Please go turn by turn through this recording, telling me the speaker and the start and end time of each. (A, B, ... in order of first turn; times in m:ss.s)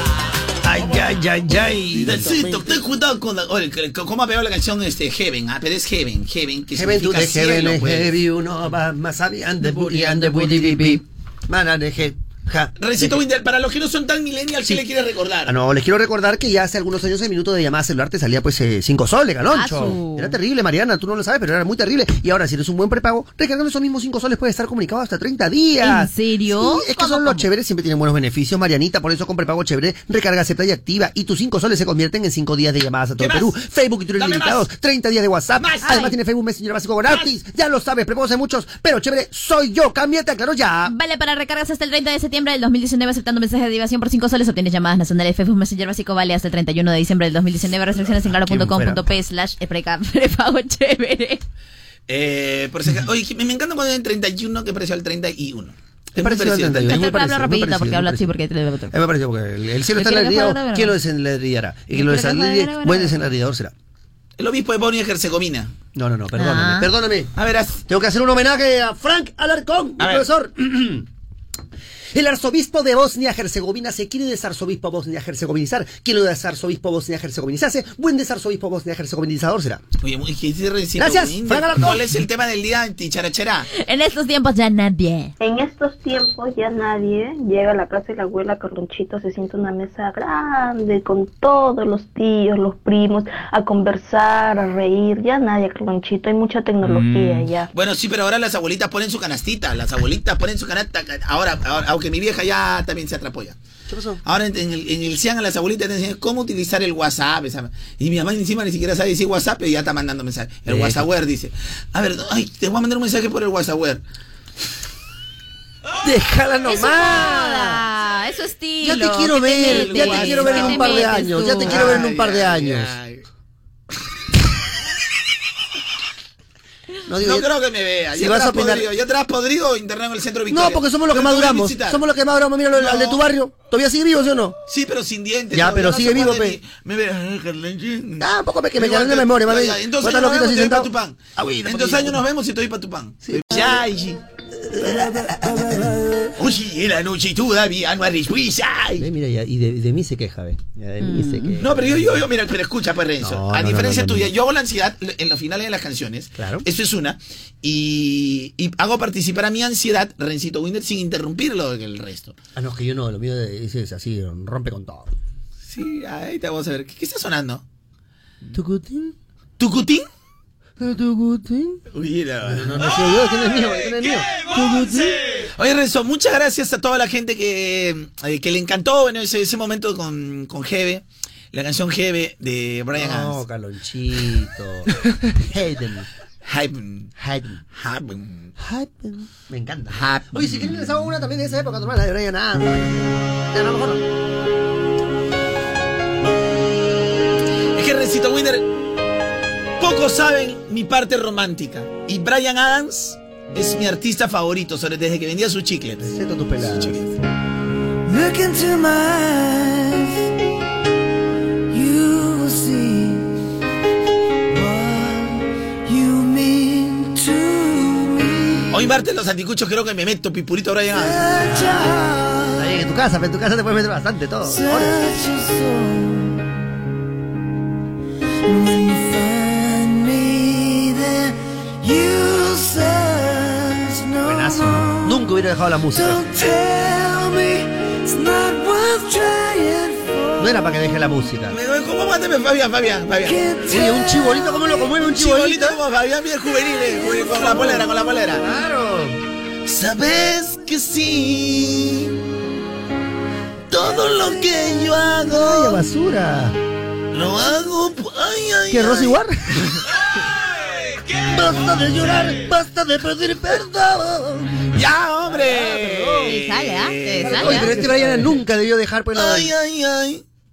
0:00.6-0:02.8 A
0:02.0-0:08.1 B
0:06.7-0:13.2 A
0:12.8-0:15.5 B
0:15.4-0:40.9 A
0:19.5-0:20.4 C
0:25.8-0:27.4 C
0:33.2-0:33.6 B
0:34.2-0:34.6 B
0:35.6-0:36.0 B
0:35.8-0:36.1 C
0:40.8-0:51.4 C
0:48.2-0:49.0 A
0:52.1-0:57.1 B
0:56.2-0:58.3 A
0:56.9-0:58.9 C
0:58.9-1:03.7 A
1:00.0-1:00.9 C
1:01.9-1:03.2 C
1:04.4-1:05.7 B
1:05.9-1:07.3 A
1:06.4-1:06.9 C
1:07.4-1:07.8 B
1:07.9-1:11.1 A
1:10.0-1:10.2 B
1:12.1-1:19.8 A
1:20.0-1:23.7 B
1:21.0-1:22.0 A
1:23.7-1:25.3 C
1:25.4-1:37.7 D
1:37.7-1:43.6 B
1:43.9-1:44.2 A
1:44.2-1:54.0 B
1:50.7-1:51.0 A
1:56.0-1:57.8 A
1:56.6-2:01.9 C
1:58.8-2:02.9 A
1:59.6-2:01.1 B
2:01.6-2:03.2 B
2:07.1-2:07.5 A
2:07.2-2:12.0 B
2:08.1-2:08.9 A
2:10.5-2:14.6 A
2:12.7-2:13.2 B
2:14.7-2:24.2 B
2:15.5-2:16.6 A
2:18.2-2:22.2 A
2:23.2-2:23.8 A
2:24.7-2:25.8 A
2:24.9-2:26.2 E
2:26.4-2:29.1 B
2:29.0-2:32.2 A
2:31.0-2:31.6 C
2:31.6-2:42.4 B
2:33.2-2:34.3 A
2:36.4-2:36.6 A
2:42.6-2:45.1 A
2:45.6-2:47.6 B
2:48.5-2:49.1 A
2:49.6-2:50.0 B
2:50.8-2:51.8 A
2:51.9-2:53.0 B
2:52.4-2:55.2 A
2:55.6-3:03.4 B
3:02.9-3:06.1 A
3:06.4-3:07.1 B
3:07.2-3:07.6 A
3:07.7-3:08.5 B
3:08.6-3:14.0 A
3:09.9-3:10.7 B
3:17.8-3:18.7 B
3:19.8-3:26.1 B
3:26.0-3:27.2 A
3:26.6-3:27.0 B
3:28.0-3:30.2 E
3:31.7-3:33.3 E
3:34.5-3:38.8 E
3:38.7-3:41.4 B
3:40.9-3:42.6 E
3:41.5-3:41.9 A
3:42.6-3:45.0 A
3:44.4-3:46.4 E
3:48.4-3:55.2 E
3:54.2-3:56.2 A
3:55.9-4:00.5 E
4:00.4-4:01.6 A
4:01.5-4:03.4 B
4:03.2-4:03.9 E
4:03.7-4:05.8 A
4:05.0-4:08.4 B
4:07.4-4:07.8 A
4:08.4-4:09.2 A
4:09.6-4:12.1 B
4:13.7-4:15.8 B
4:15.3-4:16.6 A
4:17.1-4:19.2 B
4:18.7-4:19.4 A
4:21.2-4:24.6 A
4:24.7-4:28.3 B
4:25.2-4:26.4 A
4:26.2-4:27.7 C
4:27.2-4:29.5 A
4:29.1-4:30.2 B